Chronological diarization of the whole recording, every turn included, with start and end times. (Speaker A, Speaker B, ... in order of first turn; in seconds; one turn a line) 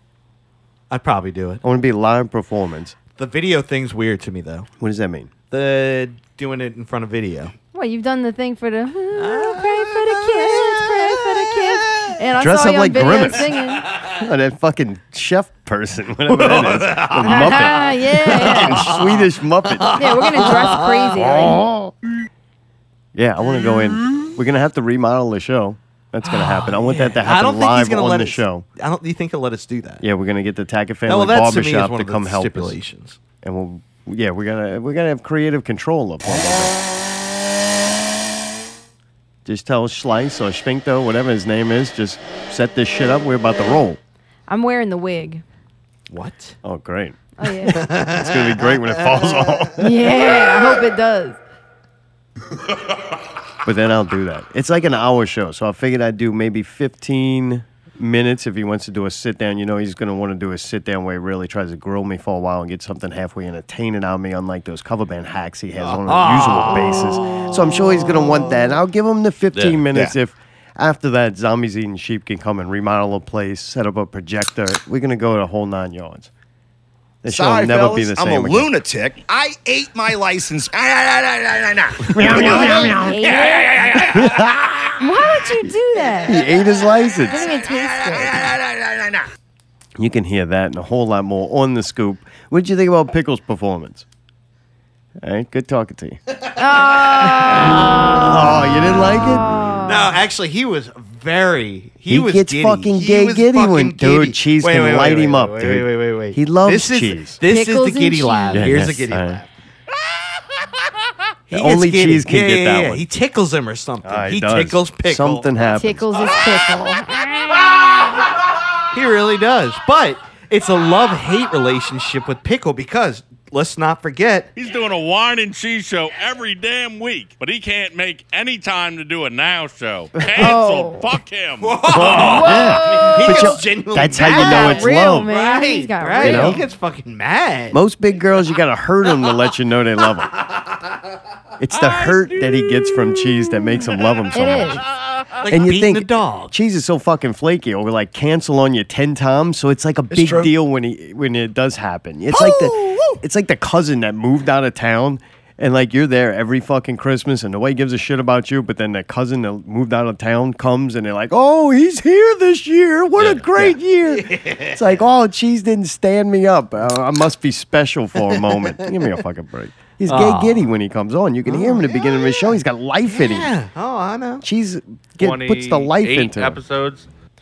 Speaker A: 0.9-1.6
Speaker B: 1.6-3.0
Speaker A: 3.2-4.7
Speaker B: 4.8-5.3
Speaker A: 5.5-7.5
Speaker C: 7.7-13.9
Speaker A: 9.2-12.1
Speaker B: 12.4-13.6
Speaker B: 14.2-20.6
Speaker A: 16.3-21.2
Speaker C: 17.2-18.9
Speaker C: 19.9-21.6
Speaker B: 21.2-21.9
Speaker B: 23.1-28.6
Speaker A: 26.2-30.0
Speaker B: 30.0-32.8
Speaker A: 31.1-33.2
Speaker B: 33.4-36.8
Speaker B: 39.4-44.0
Speaker C: 44.5-45.4
Speaker A: 46.1-46.5
Speaker B: 46.6-47.2
Speaker C: 47.4-47.8
Speaker A: 47.7-49.6
Speaker B: 48.0-50.3
Speaker C: 49.8-51.4
Speaker B: 53.6-76.3
Speaker A: 65.8-68.4
Speaker B: 77.2-78.7
Speaker D: 77.3-82.1
Speaker B: 82.0-83.2
Speaker C: 82.3-84.1
Speaker B: 84.0-84.7
Speaker C: 85.0-86.5
Speaker B: 86.2-87.5
Speaker C: 87.3-88.5
Speaker D: 88.8-89.1
Speaker B: 90.0-94.0
Speaker B: 95.2-96.2
Speaker C: 96.6-98.2
Speaker A: 97.2-98.4
Speaker B: 98.2-99.4
Speaker C: 99.2-100.1
Speaker A: 99.8-109.5
Speaker B: 102.1-107.4
Speaker C: 107.4-108.8
Speaker B: 108.5-109.4
Speaker A: 111.5-115.5
Speaker B: 111.5-113.0
Speaker B: 114.0-116.1
Speaker C: 115.7-117.8
Speaker A: 118.9-124.5
Speaker E: 124.5-132.2
Speaker C: 130.3-131.1
Speaker A: 131.6-137.8
Speaker B: 131.9-135.3
Speaker C: 132.0-133.6
Speaker C: 134.2-136.6
Speaker B: 136.2-136.6
Speaker B: 137.7-140.3
Speaker B: 141.6-144.8
Speaker C: 144.3-144.8
Speaker A: 145.4-146.5
Speaker B: 145.5-173.5
Speaker A: 150.1-150.4
Speaker A: 163.2-165.0
Speaker A: 168.3-168.9
Speaker A: 170.1-170.7
Speaker A: 171.4-172.5
Speaker A: 173.0-174.4
Speaker B: 174.4-176.6
Speaker E: 175.2-177.1